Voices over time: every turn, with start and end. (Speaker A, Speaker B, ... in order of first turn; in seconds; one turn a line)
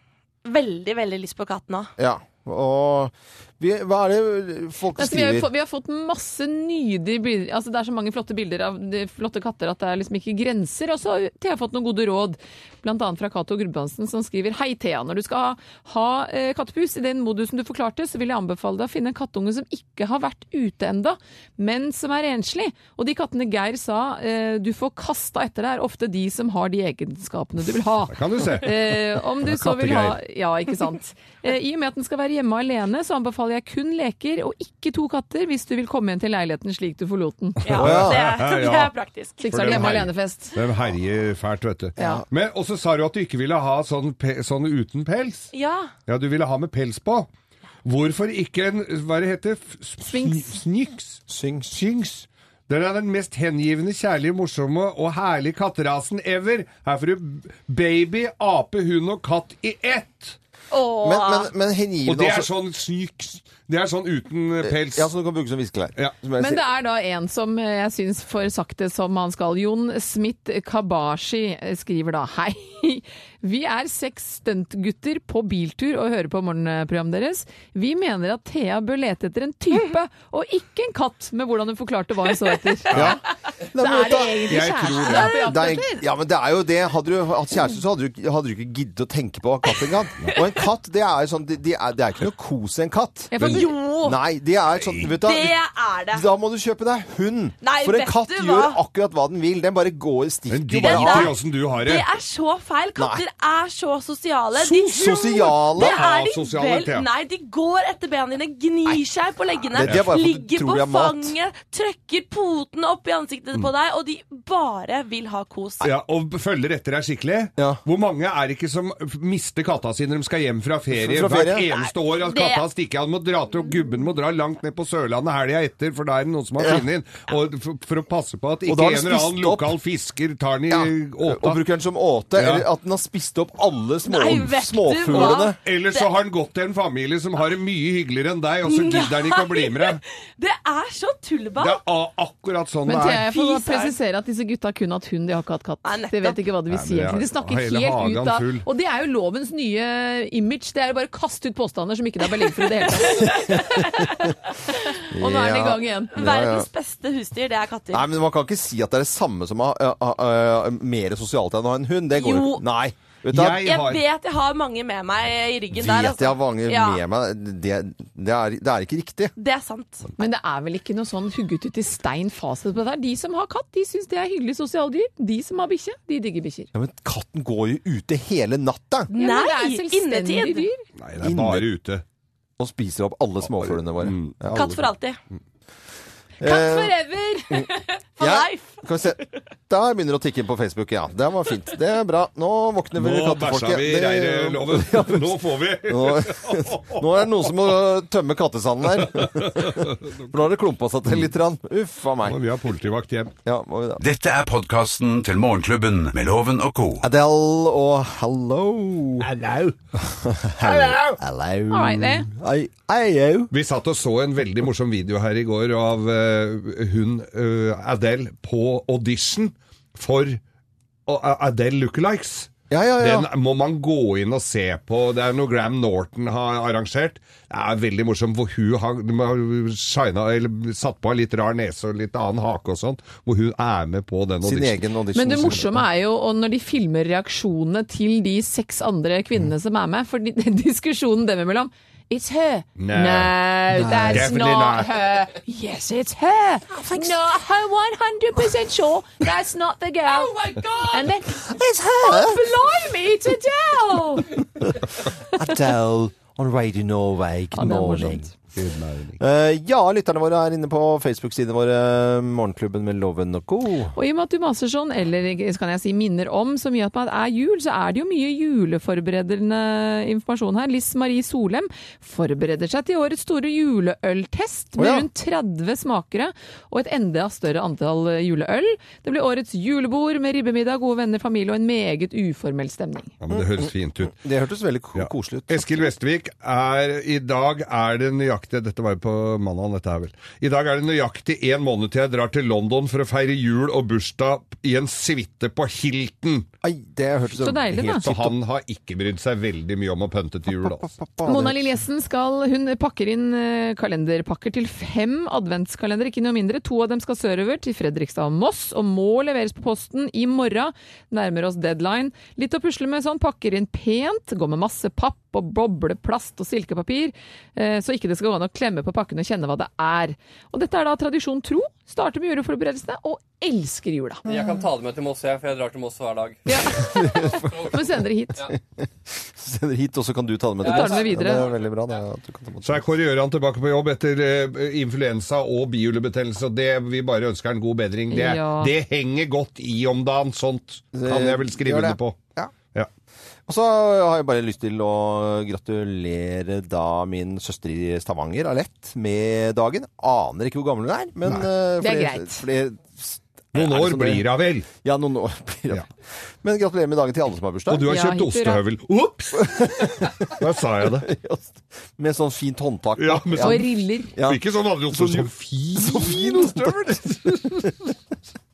Speaker A: 0.5-1.9
Speaker B: 2.0-5.5
Speaker C: 5.0-37.8
Speaker D: 28.1-30.2
Speaker A: 37.6-39.8
Speaker D: 37.7-39.0
Speaker B: 37.8-38.2
Speaker C: 39.4-40.6
Speaker D: 39.5-45.5
Speaker C: 42.0-42.2
Speaker A: 45.5-45.9
Speaker D: 46.1-47.3
Speaker D: 47.9-51.2
Speaker C: 50.1-50.6
Speaker B: 51.3-51.8
Speaker D: 51.7-60.4
Speaker A: 60.7-61.5
Speaker B: 61.0-62.5
Speaker D: 62.1-65.1
Speaker B: 64.6-66.6
Speaker C: 66.4-83.2
Speaker D: 82.9-83.2
Speaker B: 82.9-83.2
Speaker B: 83.7-95.5
Speaker C: 83.8-86.0
Speaker D: 84.5-85.4
Speaker C: 93.3-93.8
Speaker D: 93.4-93.7
Speaker A: 93.5-94.2
Speaker A: 95.1-96.2
Speaker B: 96.1-101.3
Speaker A: 97.6-98.8
Speaker D: 100.5-102.0
Speaker A: 100.8-115.8
Speaker B: 103.0-103.2
Speaker B: 104.6-106.0
Speaker D: 105.8-107.1
Speaker B: 109.8-111.3
Speaker D: 109.8-110.1
Speaker D: 115.8-131.6
Speaker B: 117.6-117.8
Speaker B: 120.9-121.7
Speaker A: 122.2-122.7
Speaker B: 126.6-126.8
Speaker B: 128.7-129.7
Speaker B: 130.7-135.6
Speaker D: 132.4-132.7
Speaker A: 134.1-136.1
Speaker D: 135.1-140.0
Speaker A: 138.6-141.8
Speaker D: 141.6-143.3
Speaker C: 142.9-154.1
Speaker A: 143.3-143.9
Speaker A: 145.8-146.5
Speaker D: 146.7-148.7
Speaker A: 153.1-153.6
Speaker B: 153.3-154.1
Speaker C: 155.0-156.2
Speaker B: 155.1-156.7
Speaker A: 156.1-158.1
Speaker B: 157.9-163.7
Speaker A: 162.2-162.6
Speaker D: 163.3-164.0
Speaker A: 163.6-167.0
Speaker B: 165.8-169.3
Speaker A: 169.4-170.1
Speaker C: 170.2-176.7
Speaker B: 176.7-179.1
Speaker A: 179.1-180.7
Speaker C: 179.1-180.8
Speaker D: 181.0-182.0
Speaker B: 181.2-181.7
Speaker B: 182.6-184.8
Speaker D: 183.6-184.7
Speaker A: 184.5-185.2
Speaker B: 186.4-187.0
Speaker C: 186.4-187.7
Speaker A: 187.7-189.4
Speaker B: 188.2-195.3
Speaker D: 193.0-197.3
Speaker B: 195.9-202.4
Speaker D: 198.9-200.4
Speaker D: 202.3-203.3
Speaker B: 203.4-204.0
Speaker E: 204.0-207.0
Speaker B: 207.0-209.3
Speaker D: 209.2-209.8
Speaker B: 210.1-213.5
Speaker D: 210.7-211.2
Speaker C: 211.7-212.3
Speaker D: 213.5-220.4
Speaker D: 221.1-234.8
Speaker B: 222.7-223.3
Speaker B: 234.4-235.8
Speaker C: 235.1-254.4
Speaker D: 242.8-243.4
Speaker B: 243.8-244.3
Speaker D: 244.0-244.9
Speaker B: 246.8-247.1
Speaker B: 251.4-252.4
Speaker B: 254.6-258.4
Speaker C: 257.6-258.3
Speaker D: 258.6-259.2
Speaker B: 259.2-264.0
Speaker C: 263.9-283.1
Speaker B: 274.8-275.1
Speaker D: 283.2-284.1
Speaker B: 283.3-285.9
Speaker D: 285.0-296.5
Speaker B: 296.6-298.3
Speaker C: 297.4-298.0
Speaker D: 298.0-300.9
Speaker B: 300.6-301.6
Speaker C: 301.2-324.2
Speaker F: 324.3-326.6
Speaker C: 326.5-328.5
Speaker B: 326.8-327.8
Speaker F: 327.2-327.8
Speaker B: 328.5-332.9
Speaker C: 330.6-331.5
Speaker F: 330.6-332.0
Speaker D: 332.6-342.2
Speaker C: 338.1-338.7
Speaker B: 340.9-342.5
Speaker B: 343.5-355.9
Speaker C: 351.8-352.4
Speaker D: 353.5-354.7
Speaker B: 356.4-357.9
Speaker D: 357.7-361.1
Speaker C: 357.9-358.6
Speaker B: 359.4-363.6
Speaker D: 363.0-367.9
Speaker C: 363.4-364.1
Speaker B: 364.2-367.7